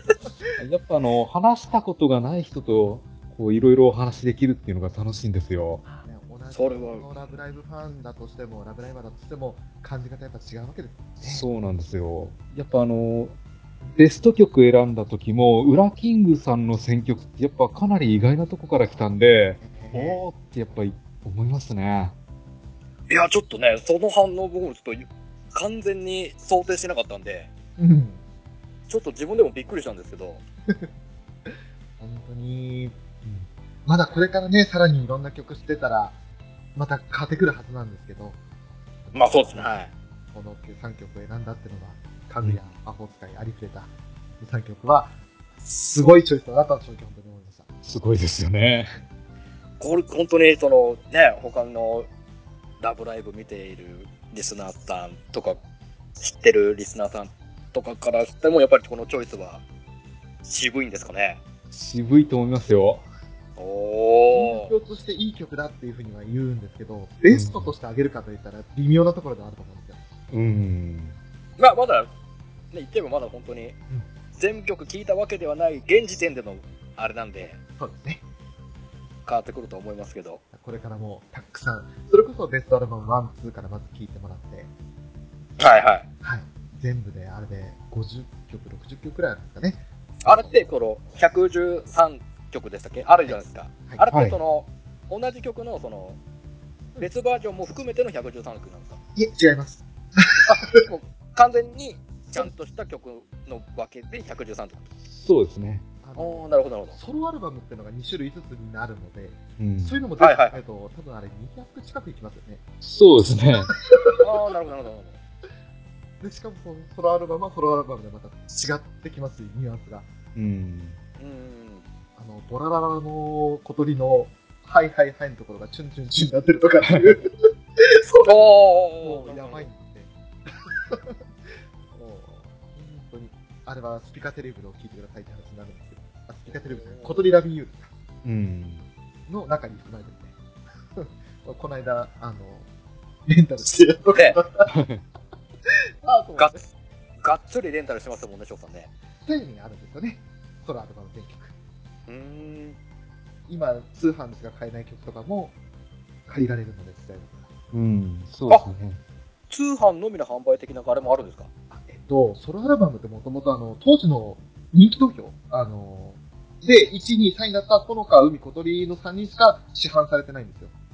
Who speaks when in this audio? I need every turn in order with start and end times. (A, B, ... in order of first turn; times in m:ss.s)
0:00.6-0:05.8 A
0:05.8-0:11.4 B
0:06.5-0:07.0 C
0:11.2-0:13.4 A
0:14.0-0:22.1 A
0:19.6-0:20.2 B
0:23.1-0:27.5 C
0:27.8-0:28.2 B
0:28.9-0:30.4 C
0:32.0-0:36.2 B
0:36.7-0:38.4 B
0:39.0-0:47.7 B
0:39.1-0:39.9 C
0:47.8-0:48.9 A
0:49.8-0:52.1 C
0:52.8-0:55.6 C
0:56.2-0:59.6 C
1:00.4-1:01.4 C
1:01.7-1:03.0 A
1:03.6-1:04.7 C
1:04.3-1:10.0 B
1:07.3-1:07.7 A
1:10.3-1:11.2 A
1:11.6-1:12.1 C
1:12.7-1:13.8 C
1:14.4-1:17.6 C
1:17.8-1:18.2 B
1:19.2-1:20.4 C
1:20.5-1:24.7 B
1:25.6-1:26.0 C
1:26.2-1:30.6 B
1:30.2-1:36.2 C
1:33.2-1:34.0 B
1:34.1-1:34.4 A
1:37.0-1:39.0 C
1:39.2-1:40.8 B
1:40.4-1:44.8 C
1:45.1-1:45.8 A
1:46.0-1:52.6 B
1:46.1-1:47.0 C
1:49.6-1:50.0 A
1:50.2-1:50.6 C
1:52.8-1:53.7 A
1:53.8-1:54.1 B
1:54.2-1:55.2 C
1:56.2-2:00.1 B
2:00.3-2:01.0 A
2:01.2-2:01.8 C
2:02.2-2:17.9 B
2:06.8-2:07.2 A
2:08.2-2:09.7 C
2:16.5-2:17.2 C
2:18.2-2:18.9 A
2:19.3-2:20.3 B
2:20.9-2:22.7 B
2:23.3-2:24.7 B
2:24.7-2:25.0 A
2:25.7-2:26.6 B
2:27.2-2:28.9 C
2:29.2-2:31.5 B
2:32.1-2:32.8 C
2:33.5-2:35.6 B
2:36.3-2:37.5 B
2:37.7-2:39.0 A
2:39.5-2:41.5 C
2:41.7-2:50.7 B